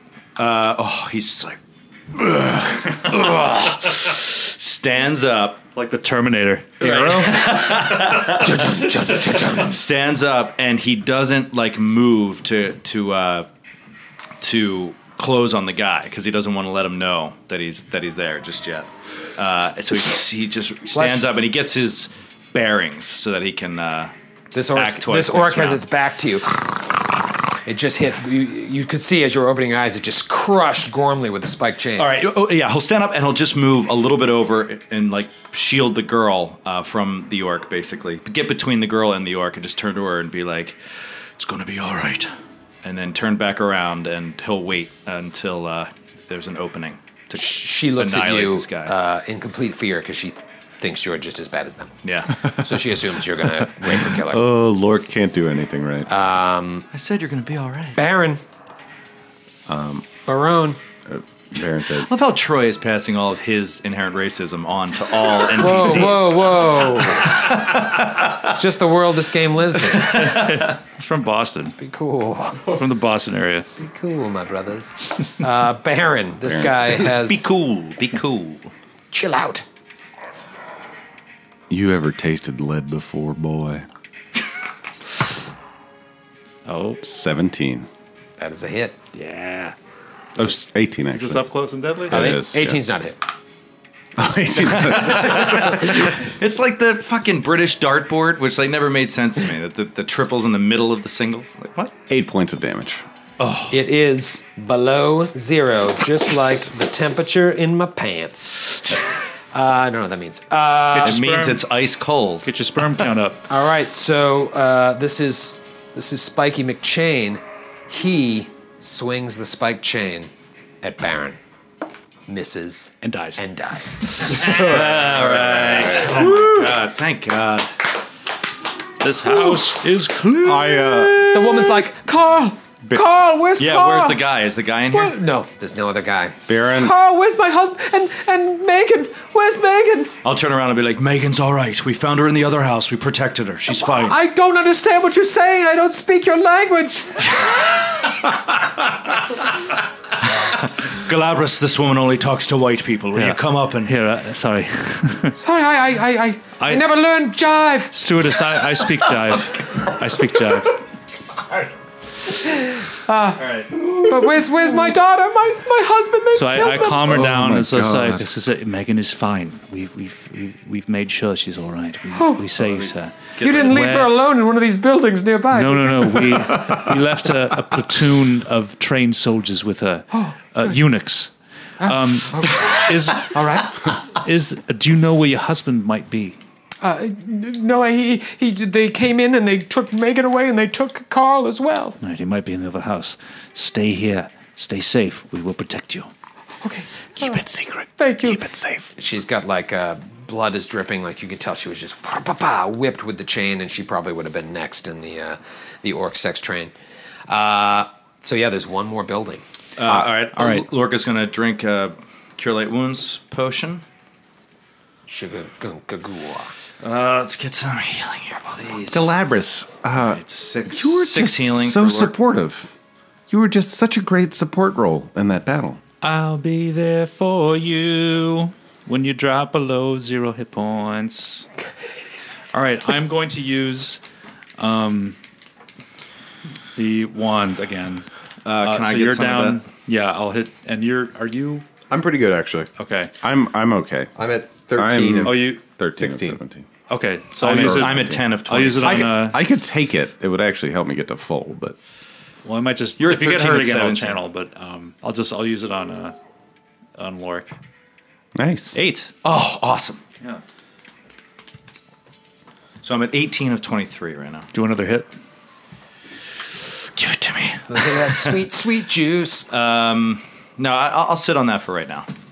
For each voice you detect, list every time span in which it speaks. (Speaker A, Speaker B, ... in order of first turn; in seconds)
Speaker A: 0.4-1.6, 2.1-5.6, 6.8-8.7, 9.5-13.5, 14.4-24.1, 24.7-25.8, 32.0-40.8, 41.4-42.3, 42.8-48.9, 52.0-52.4, 56.9-58.0, 61.9-68.5, 69.9-70.7, 76.8-78.7, 94.5-101.9, 103.4-103.8, 111.0-112.5, 124.3-127.7, 133.6-135.1, 140.2-144.2, 150.2-153.9, 172.6-173.8, 209.8-213.8, 216.8-219.1, 219.9-222.1, 238.4-239.6, 247.4-249.1, 253.0-254.2, 259.2-260.0, 262.8-264.5, 266.9-268.4, 269.5-272.1
Speaker B: 5.7-8.3, 70.0-71.7, 72.7-73.7, 86.7-87.0, 89.1-89.7, 91.1-92.4, 110.9-111.7, 112.4-113.4, 123.0-123.4, 124.1-126.7, 129.0-131.8, 153.1-155.4, 156.6-156.8, 157.9-160.8, 166.3-174.2, 175.5-181.3, 181.8-186.4, 192.0-196.1, 197.2-198.9, 226.0-231.4, 232.5-234.0, 234.6-235.2, 236.7-238.1, 238.6-241.7, 242.8-243.1, 245.2-245.6, 246.9-249.4, 252.4-256.1, 257.0-257.5, 258.7-259.1, 264.5-265.1
Speaker C: 6.8-7.5, 8.3-9.8, 20.9-21.3, 24.5-26.9, 27.6-32.1, 47.3-54.5, 56.1-56.9, 58.0-58.4, 60.2-60.8, 65.6-67.4, 68.4-70.3, 71.7-72.8, 73.8-77.5, 79.1-79.6, 88.4-89.0, 92.1-93.2, 103.7-108.9, 109.5-111.2, 113.5-120.3, 120.8-121.4, 122.3-124.6, 131.3-134.2, 134.9-140.1, 143.7-147.5, 155.3-157.9, 162.5-163.4, 164.0-167.2, 172.1-172.4, 173.4-176.6, 180.1-180.7, 181.8-183.7, 186.8-192.0, 196.6-197.4, 198.0-198.4, 198.9-206.7, 207.3-209.4, 215.1-216.5, 267.7-269.5
Speaker D: 53.8-56.1, 59.7-60.1, 61.1-62.1, 76.4-76.8, 81.7-83.8, 87.0-87.9, 90.3-91.5, 92.0-92.8, 94.2-95.8, 102.1-103.0, 130.4-131.3, 136.5-136.9, 167.0-168.3, 209.8-210.5, 218.9-222.7, 223.3-225.8, 243.2-244.1, 244.7-246.7, 247.4-248.2, 248.8-251.8, 258.4-258.8
Speaker E: 241.9-242.7, 244.2-246.4